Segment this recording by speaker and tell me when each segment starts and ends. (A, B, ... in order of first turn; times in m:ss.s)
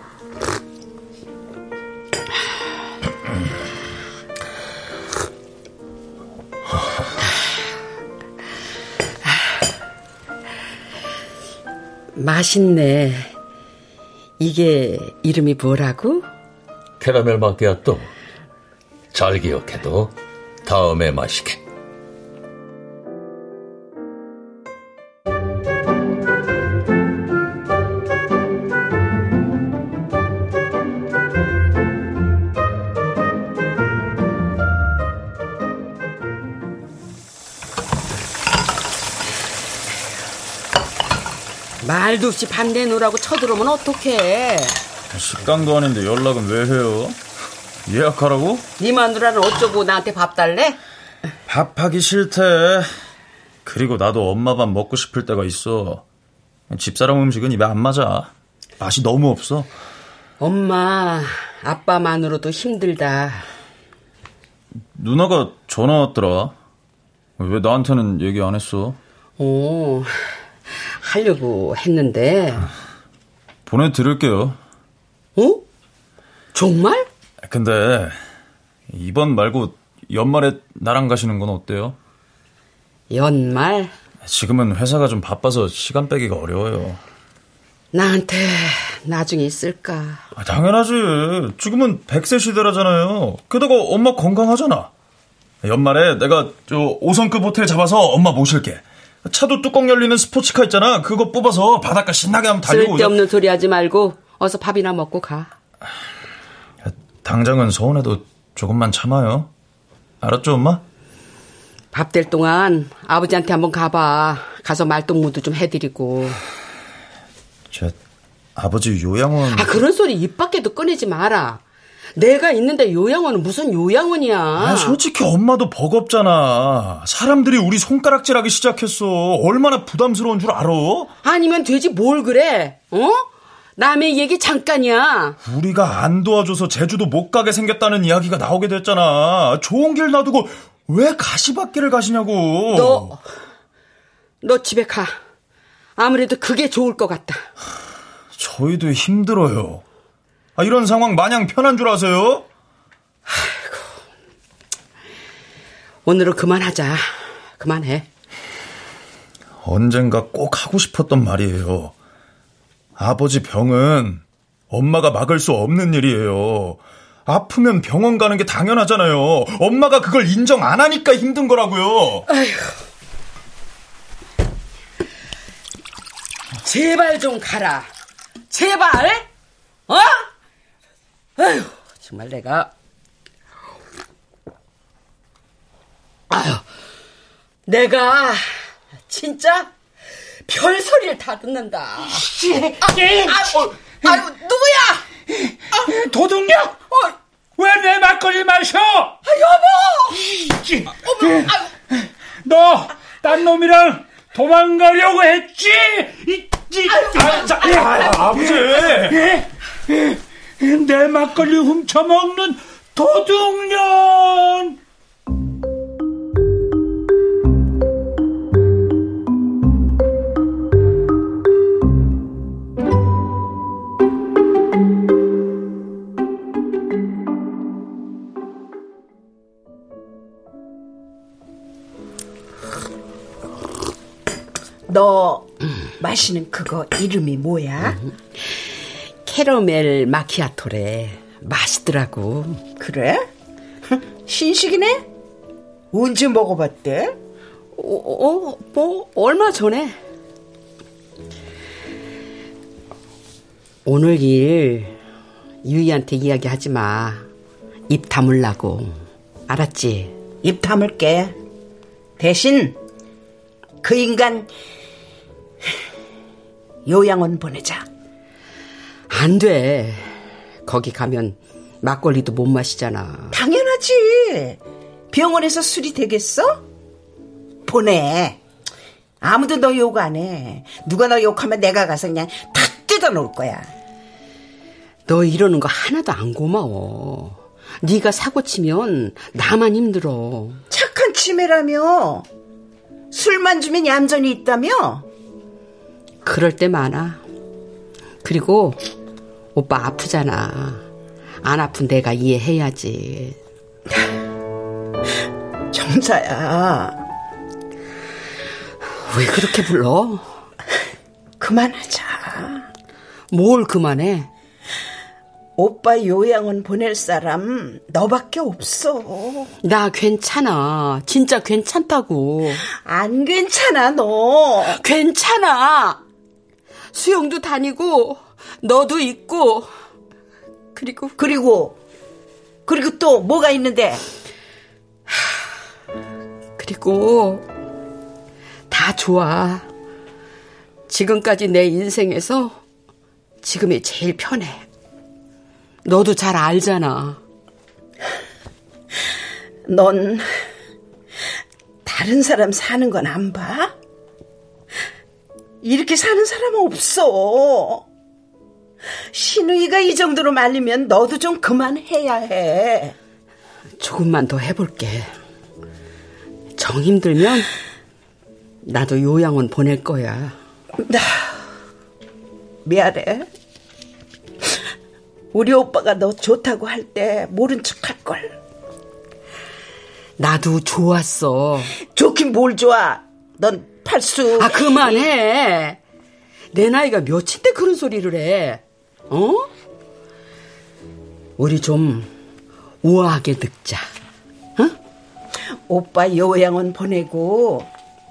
0:12.2-0:13.3 A
0:14.4-0:16.3 A
0:17.0-0:18.1 B
0:19.1-0:20.1 B
0:20.6-0:21.6 B
0:41.8-0:44.8 A
0:45.1-0:47.2 C
0:47.9-0:48.7 C
0:48.8-0:50.8 A
0:51.5-0:52.9 C
0:53.7-0:56.0 C
0:56.7-0:59.7 C
1:00.4-1:03.5 A
1:05.0-1:06.6 C
1:07.4-1:09.0 C
1:09.4-1:10.2 A
1:10.7-1:12.7 A
1:13.7-1:14.6 C
1:15.4-1:15.6 A
1:16.5-1:17.1 A
1:17.4-1:18.2 C
1:18.9-1:22.0 C
1:23.1-1:23.9 A
1:24.2-1:27.0 C
1:27.9-1:30.2 A
1:30.4-1:34.9 C
1:35.6-1:43.2 C
1:42.7-1:45.5 A
1:46.8-1:49.5 C
1:50.2-1:50.8 C
1:51.9-1:56.4 A
1:57.7-1:58.0 C
1:58.6-1:59.8 C
1:59.5-2:01.6 A
2:02.2-2:05.0 A
2:04.6-2:11.1 C
2:11.2-2:15.4 A
2:15.4-2:23.2 C
2:22.7-2:23.2 A
2:24.4-2:25.2 A
2:26.0-2:27.5 A
2:28.3-2:29.8 C
2:30.6-2:32.5 C
2:33.3-2:34.0 A
2:36.1-2:37.1 A
2:37.6-2:38.1 A
2:39.6-2:41.9 C
2:43.0-2:52.2 C
2:52.3-2:52.8 A
2:56.6-2:57.9 A
2:58.5-2:59.3 A
2:59.9-3:00.3 A
3:01.4-3:02.7 A
3:06.3-3:06.6 A
3:07.7-3:08.5 A
3:09.1-3:09.7 A
3:10.5-3:12.2 A
3:12.1-3:14.2 D
3:14.0-3:15.0 E
3:15.3-3:16.8 D
3:17.6-3:19.2 D
3:19.4-3:19.9 E
3:20.1-3:34.8 D
3:21.2-3:21.6 A
3:27.0-3:29.2 C
3:54.9-3:58.0 E
3:58.0-4:02.6 A
4:02.8-4:03.3 E
4:03.9-4:05.0 E
4:05.9-4:07.2 E
4:07.8-4:10.0 A
4:13.9-4:15.0 A
4:15.6-4:17.3 A
4:17.9-4:20.1 A
4:20.4-4:21.4 E
4:22.2-4:22.8 E
4:23.8-4:24.5 E
4:26.9-4:27.8 E
4:29.1-4:33.4 A
4:33.3-4:34.6 E
4:35.1-4:36.6 E
4:37.6-4:38.4 E
4:39.2-4:43.7 E
4:45.1-4:50.6 A
4:50.7-4:52.3 E
4:53.1-4:55.1 E
4:56.2-4:57.2 A
4:58.2-4:58.8 A
4:59.6-5:00.8 A
5:01.4-5:03.4 A
5:05.7-5:07.0 E
5:09.1-5:10.3 A
5:11.4-5:12.7 E
5:13.3-5:14.3 A
5:15.6-5:19.5 E
5:19.6-5:22.6 A
5:22.8-5:24.8 E
5:24.7-5:26.0 A
5:26.9-5:29.7 A
5:30.8-5:31.2 A
5:31.2-5:31.8 E
5:32.7-5:34.0 E
5:35.1-5:35.4 A
5:36.6-5:37.4 A
5:38.7-5:39.7 A
5:40.9-5:42.6 A
5:43.4-5:44.7 A
5:45.8-5:47.2 A
5:49.7-5:50.5 E
5:51.8-5:53.7 E
5:55.6-5:57.8 E
5:59.1-6:03.0 E
6:03.8-6:05.1 A
6:06.6-6:07.5 A
6:08.6-6:10.4 A
6:10.8-6:11.3 E
6:12.7-6:13.3 E
6:15.3-6:18.4 E
6:20.2-6:21.7 A
6:21.8-6:25.0 E
6:24.4-6:25.8 A
6:26.5-6:29.5 A
6:31.4-6:32.1 A
6:32.8-6:33.9 A
6:35.7-6:37.7 E